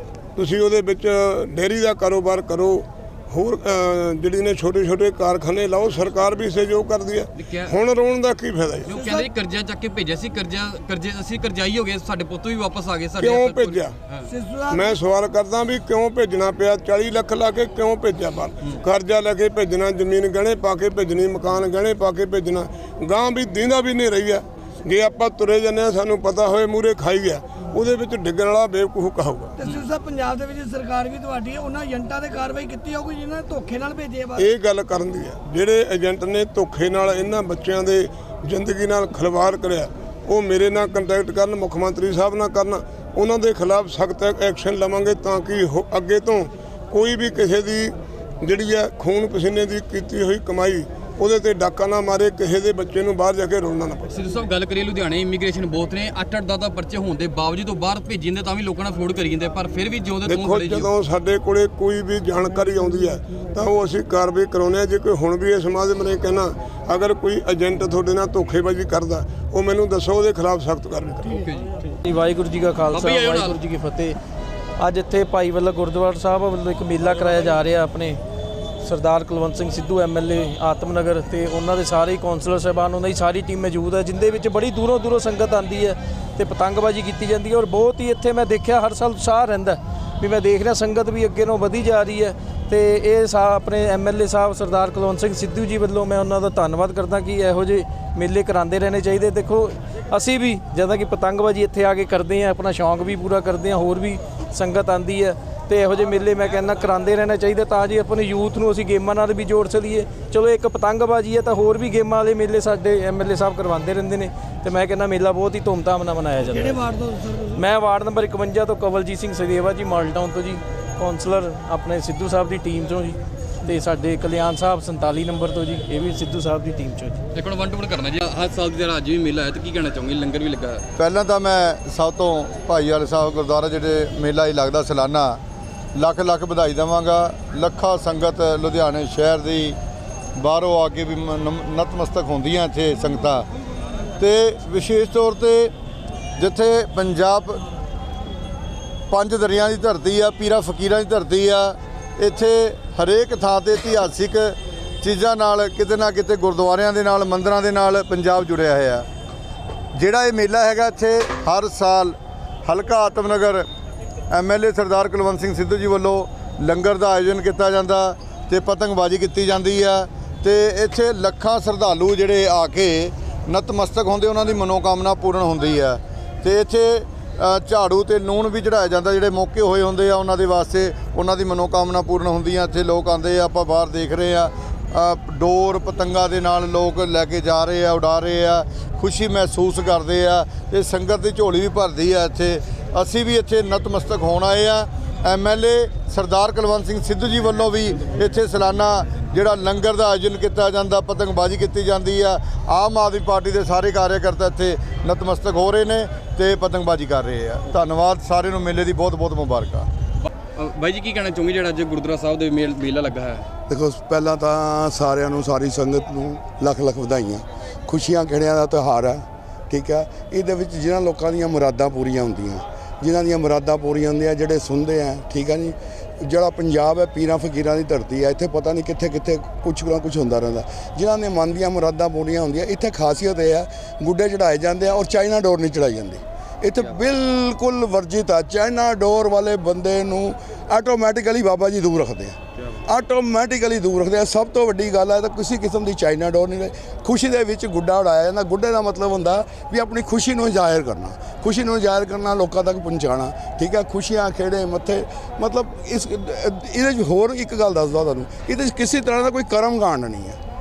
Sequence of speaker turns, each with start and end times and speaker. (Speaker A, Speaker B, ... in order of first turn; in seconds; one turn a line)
Speaker A: 0.3-8.9
Speaker B: 7.4-7.8
Speaker B: 8.9-14.3
Speaker C: 8.9-9.2
Speaker A: 13.2-13.9
Speaker C: 14.3-15.0
Speaker A: 14.7-29.6
Speaker C: 29.6-34.5
Speaker A: 34.4-54.2
Speaker B: 54.1-60.9
Speaker A: 60.2-71.3
Speaker B: 71.3-71.8
Speaker D: 71.9-74.2
Speaker B: 72.9-73.6
Speaker D: 74.8-78.2
Speaker D: 78.8-116.8
Speaker C: 116.5-117.6
Speaker D: 117.5-127.2
Speaker B: 127.3-130.8
Speaker E: 130.9-135.4
Speaker E: 135.9-139.8
Speaker E: 140.3-143.5
Speaker E: 144.2-145.7
Speaker E: 146.4-147.6
Speaker E: 149.1-159.1
Speaker E: 159.9-163.7
Speaker E: 164.3-209.9
Speaker B: 210.2-213.5
Speaker F: 213.7-260.4